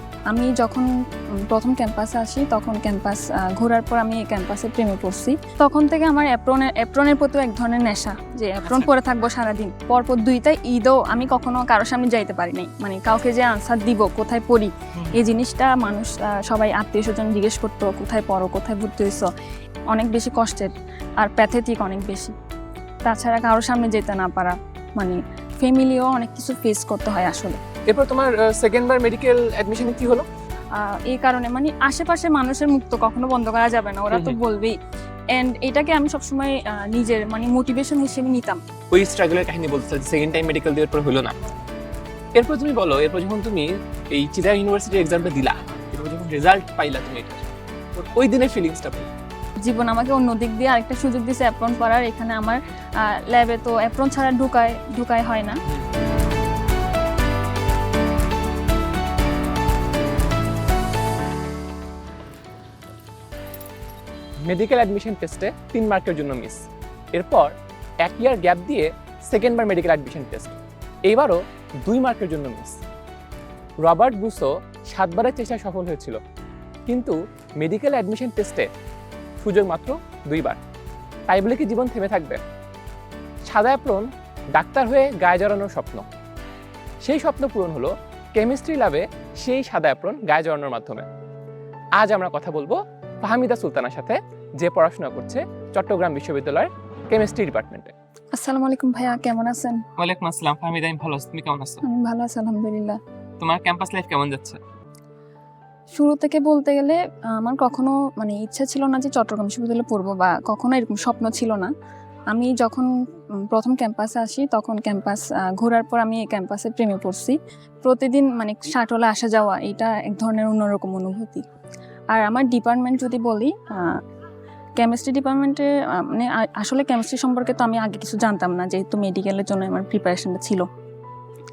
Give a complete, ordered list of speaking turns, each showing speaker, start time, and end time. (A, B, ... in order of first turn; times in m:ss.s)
0:00.3-0:00.9 A
0:01.4-0:19.3 A
0:08.6-0:08.9 B
0:15.0-0:15.2 B
0:19.9-0:22.3 A
0:23.0-0:27.6 A
0:27.9-0:30.2 B
0:30.7-0:34.8 A
0:34.1-0:34.4 B
0:35.3-0:38.6 A
0:38.9-0:41.3 B
0:42.3-0:49.1 B
0:49.6-0:55.6 A
1:04.5-1:12.8 B
1:13.8-1:16.2 B
1:16.9-1:18.7 B
1:19.4-1:20.6 B
1:21.3-1:22.4 B
1:23.5-1:26.0 B
1:27.0-1:31.0 B
1:32.0-1:37.9 B
1:38.3-1:39.8 A
1:40.0-1:41.8 B
1:41.8-1:43.0 A
1:43.4-1:44.6 B
1:45.9-1:51.7 A
1:52.3-2:01.4 A
2:02.1-2:04.0 A
2:04.8-2:10.6 A